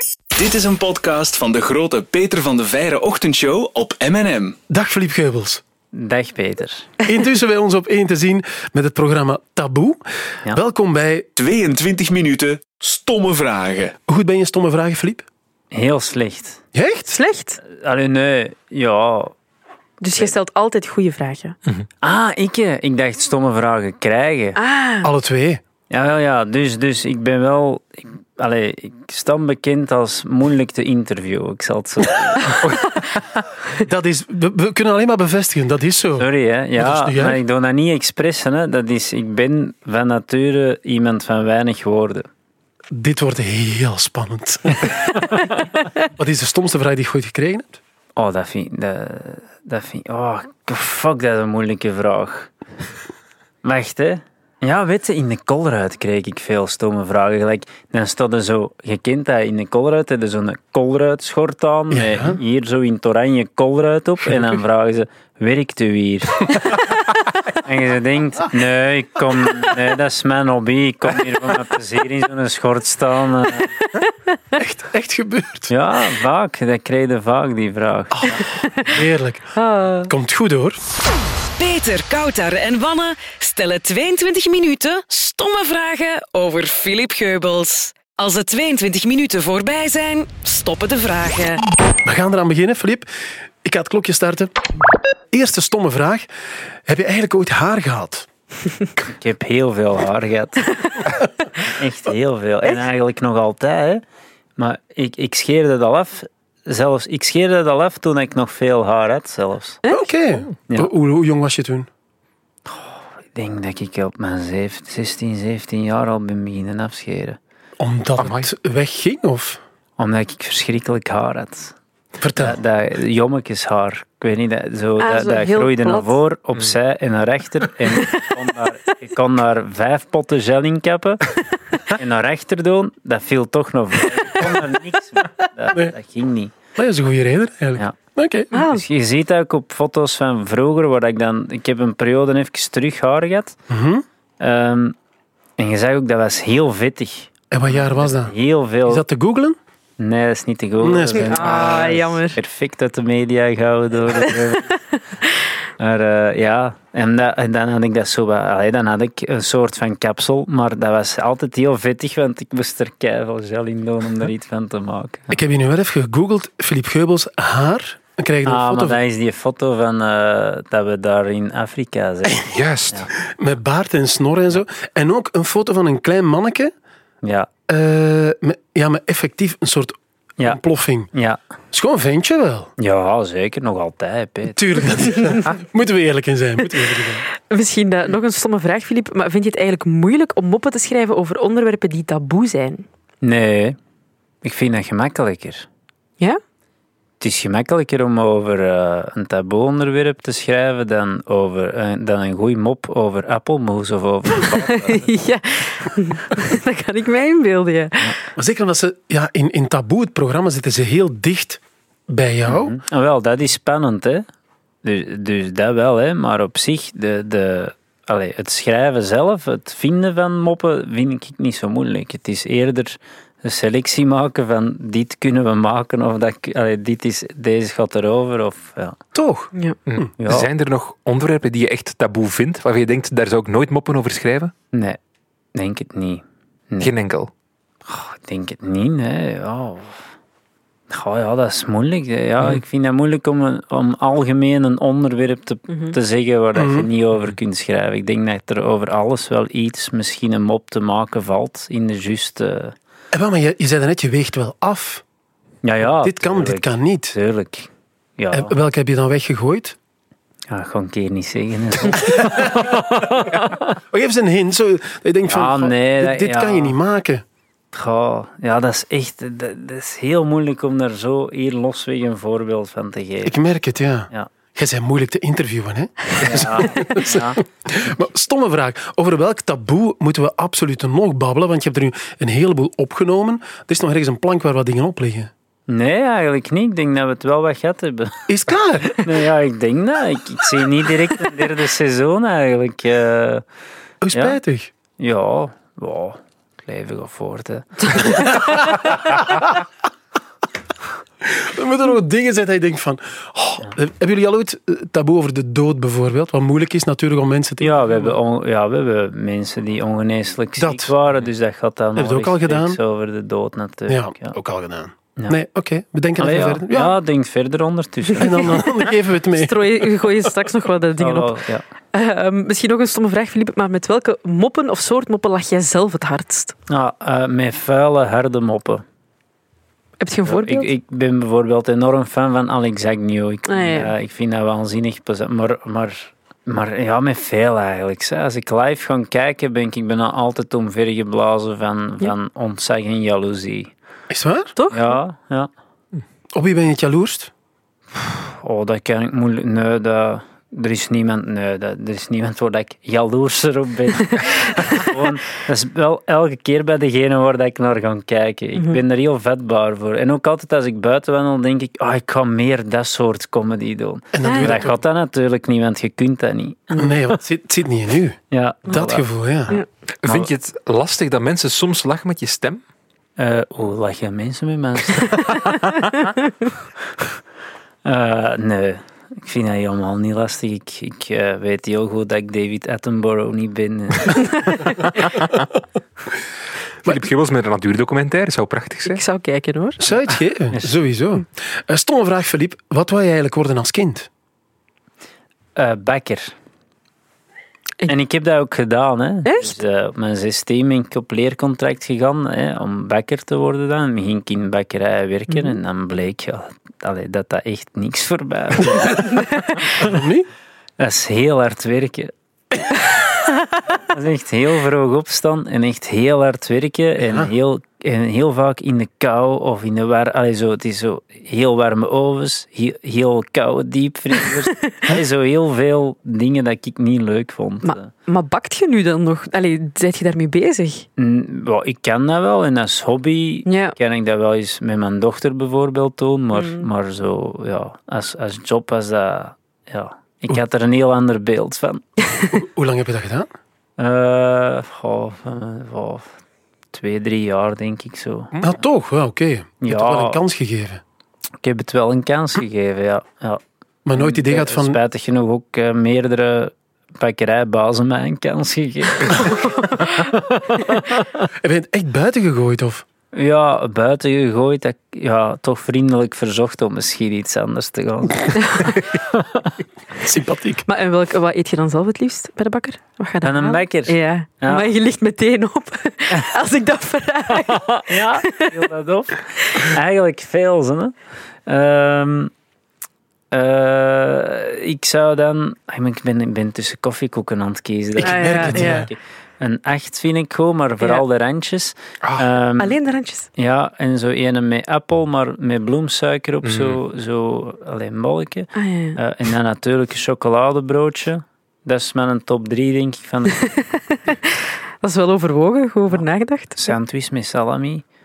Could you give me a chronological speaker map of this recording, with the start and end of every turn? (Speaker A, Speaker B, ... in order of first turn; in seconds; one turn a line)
Speaker A: 0.4-4.6
Speaker B: 4.7-5.6
Speaker C: 5.9-6.9
Speaker B: 7.0-11.3
Speaker A: 11.4-14.0
Speaker B: 14.1-15.3
Speaker C: 15.7-16.6
Speaker B: 16.7-17.2
Speaker D: 17.1-17.6
Speaker C: 17.6-19.3
Speaker D: 20.0-21.6
Speaker C: 22.0-24.6
Speaker D: 24.6-25.1
Speaker B: 25.0-25.6
Speaker C: 25.9-32.6
Speaker B: 33.7-37.4
Speaker C: 36.2-42.3
Speaker B: 42.9-45.0
Speaker C: 45.2-45.6
Speaker B: 46.2-47.8
Speaker C: 48.2-52.5
Speaker C: 53.6-66.7
Speaker B: 61.9-62.4
Speaker C: 67.5-73.7
Speaker B: 74.5-75.7
Speaker C: 75.7-78.4
Speaker B: 78.1-79.5
Speaker D: 79.6-80.1
Speaker B: 80.1-80.8
Speaker E: 81.6-91.6
Speaker B: 92.0-94.5
Speaker B: 95.3-96.3
Speaker B: 96.8-98.3
Speaker C: 99.0-100.7
Speaker C: 101.6-104.0
Speaker C: 104.6-109.8
Speaker B: 109.9-111.9
Speaker C: 112.7-117.4
Speaker B: 117.8-119.6
Speaker F: 118.2-118.5
Speaker C: 120.0-121.8
Speaker B: 122.2-122.6
Speaker C: 122.3-131.3
Speaker D: 125.0-126.2
Speaker C: 131.8-136.5
Speaker B: 136.8-138.6
Speaker D: 138.5-138.8
Speaker C: 138.5-143.6
Speaker B: 143.7-144.0
Speaker C: 144.4-144.9
Speaker C: 145.6-149.0
Speaker B: 147.5-149.6
Speaker C: 150.0-154.8
Speaker B: 150.8-152.0
Speaker D: 151.2-152.4
Speaker C: 155.8-165.4
Speaker B: 165.3-169.0
Speaker C: 168.4-173.1
Speaker F: 172.4-173.1
Speaker B: 173.2-176.7
Speaker C: 177.2-177.5
Speaker B: 177.7-181.1
Speaker C: 181.1-181.4
Speaker B: 181.7-182.7
Speaker C: 182.8-184.9
Speaker B: 184.5-187.2
Speaker D: 187.5-192.9
Speaker C: 193.2-193.8
Speaker C: 194.4-195.7
Speaker C: 197.2-205.1
Speaker D: 204.5-208.2
Speaker B: 208.4-212.8
Speaker C: 212.5-214.3
Speaker C: 214.8-229.0
Speaker B: 229.1-230.1
Speaker F: 229.9-234.5
Speaker C: 230.2-230.5
Speaker C: 234.7-235.0
Speaker C: 235.6-236.9
Speaker F: 236.8-237.3
Speaker C: 237.9-240.0
Speaker C: 240.9-252.8
Speaker B: 246.6-246.9
Speaker B: 253.1-255.0
Speaker C: 255.6-258.5
Speaker B: 256.0-257.1
Speaker B: 258.3-259.8
Speaker C: 260.5-263.7
Speaker B: 261.8-267.2
Speaker C: 265.3-266.8
Speaker C: 267.7-273.4
Speaker B: 273.2-285.3
Speaker C: 276.2-277.4
Speaker C: 285.7-288.2
Speaker B: 288.3-289.1
Speaker C: 288.9-293.4
Speaker B: 294.0-294.7
Speaker C: 294.1-294.4
Speaker C: 295.0-298.6
Speaker B: 298.2-299.5
Speaker B: 301.2-308.1
Speaker C: 307.6-314.4
Speaker B: 310.6-310.9
Speaker B: 312.0-312.8
Speaker B: 313.9-317.0
Speaker C: 316.2-318.5
Speaker B: 318.2-320.1
Speaker D: 319.4-321.4
Speaker C: 321.0-321.6
Speaker D: 321.9-326.6
Speaker C: 326.7-328.8
Speaker D: 330.0-330.7
Speaker C: 330.2-343.7
Speaker D: 333.5-333.9
Speaker B: 344.1-344.6
Speaker D: 344.6-345.0
Speaker C: 344.7-345.5
Speaker B: 346.3-347.3
Speaker C: 348.0-366.9
Speaker B: 364.1-364.8
Speaker D: 364.2-364.5
Speaker B: 366.8-369.6
Speaker C: 368.3-369.1
Speaker F: 370.0-372.6
Speaker C: 373.2-375.9
Speaker C: 377.8-384.9
Speaker F: 386.8-389.0
Speaker D: 388.9-389.8
Speaker B: 389.8-394.1
Speaker C: 395.6-396.4
Speaker C: 397.9-409.9
Speaker D: 399.3-399.6
Speaker B: 409.8-410.3
Speaker C: 410.8-412.1
Speaker C: 413.7-427.9
Speaker D: 427.6-430.9
Speaker C: 431.0-441.8
Speaker D: 433.5-433.8
Speaker D: 436.3-436.7
Speaker B: 442.3-443.3
Speaker C: 443.8-446.1
Speaker C: 446.7-448.4
Speaker B: 448.4-450.8
Speaker C: 449.6-450.2
Speaker C: 451.4-453.4
Speaker B: 453.9-454.8
Speaker C: 453.9-461.1
Speaker B: 461.4-462.9
Speaker C: 463.1-469.5
Speaker D: 468.4-468.8
Speaker B: 470.0-470.6
Speaker D: 470.7-478.5
Speaker C: 473.2-474.7
Speaker C: 477.4-480.9
Speaker C: 481.5-482.3
Speaker C: 483.3-492.8
Speaker B: 488.0-488.9
Speaker D: 488.0-488.9
Speaker D: 492.6-493.3
Speaker C: 493.4-503.5
Speaker F: 496.4-496.8
Speaker D: 498.6-499.0
Speaker D: 503.4-504.3
Speaker D: 504.8-506.7
Speaker C: 506.6-507.9